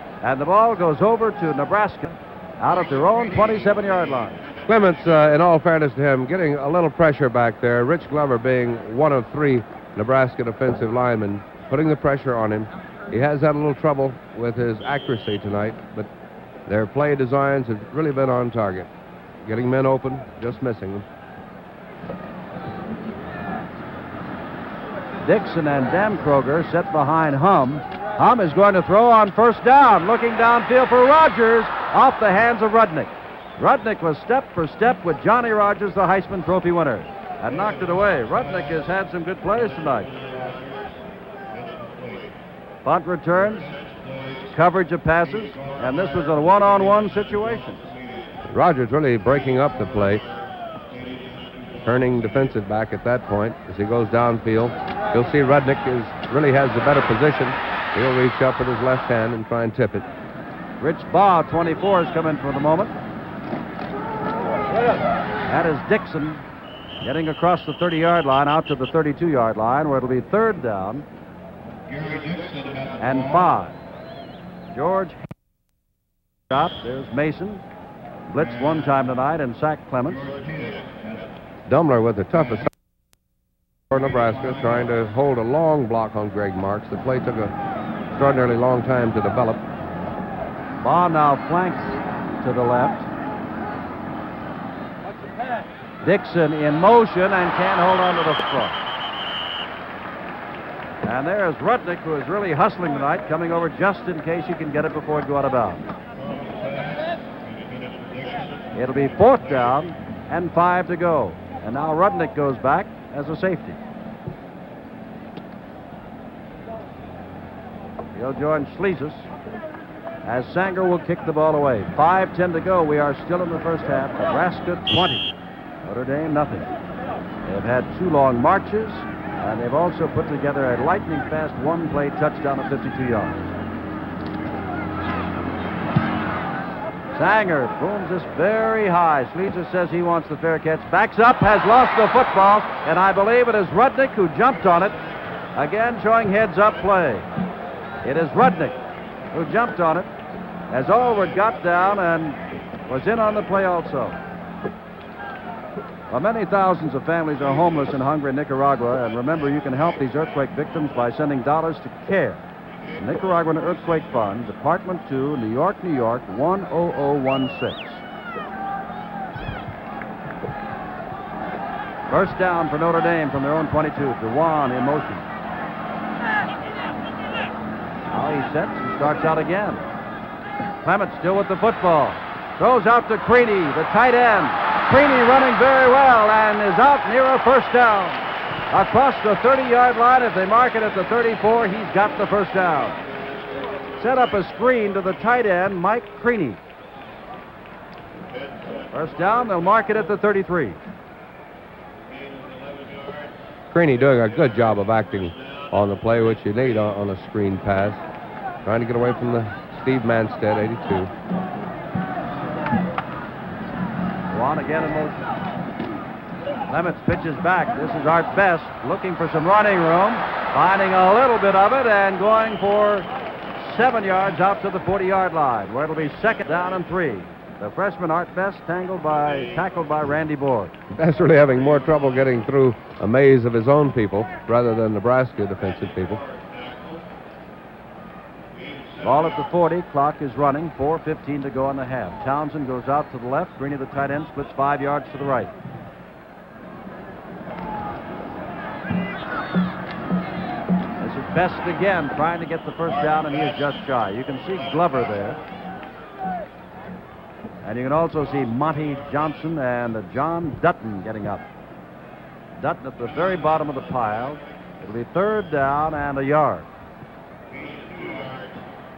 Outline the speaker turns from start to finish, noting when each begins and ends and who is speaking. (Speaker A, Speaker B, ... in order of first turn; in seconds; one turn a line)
Speaker A: 0.2-4.4
Speaker B: 4.7-16.1
Speaker B: 16.7-18.9
Speaker B: 19.4-21.1
Speaker A: 25.2-40.2
Speaker A: 42.9-43.7
Speaker A: 44.5-47.8
Speaker B: 48.5-50.2
Speaker B: 51.8-60.1
Speaker A: 60.8-63.0
Speaker A: 65.5-66.4
Speaker A: 67.0-71.0
Speaker A: 73.0-73.8
Speaker A: 74.7-75.2
Speaker A: 76.5-77.6
Speaker A: 78.3-80.3
Speaker B: 81.7-82.7
Speaker B: 83.9-87.5
Speaker B: 88.1-89.6
Speaker A: 90.8-93.1
Speaker A: 96.0-98.8
Speaker A: 101.0-105.8
Speaker A: 108.7-113.8
Speaker A: 118.2-119.3
Speaker A: 120.2-125.3
Speaker A: 125.8-126.7
Speaker A: 127.5-133.4
Speaker A: 137.1-145.0
Speaker A: 145.6-147.3
Speaker A: 148.0-148.8
Speaker A: 149.3-150.1
Speaker A: 150.7-154.2
Speaker A: 156.1-162.4
Speaker A: 163.0-168.0
Speaker A: 172.1-175.3
Speaker A: 178.1-179.8
Speaker A: 180.8-193.0
Speaker A: 194.0-196.6
Speaker A: 198.9-200.8
Speaker B: 203.7-208.0
Speaker B: 208.6-211.1
Speaker A: 214.3-215.3
Speaker A: 216.7-230.8
Speaker B: 230.9-236.2
Speaker A: 239.0-245.5
Speaker A: 251.0-255.4
Speaker A: 257.6-261.5
Speaker A: 262.6-266.7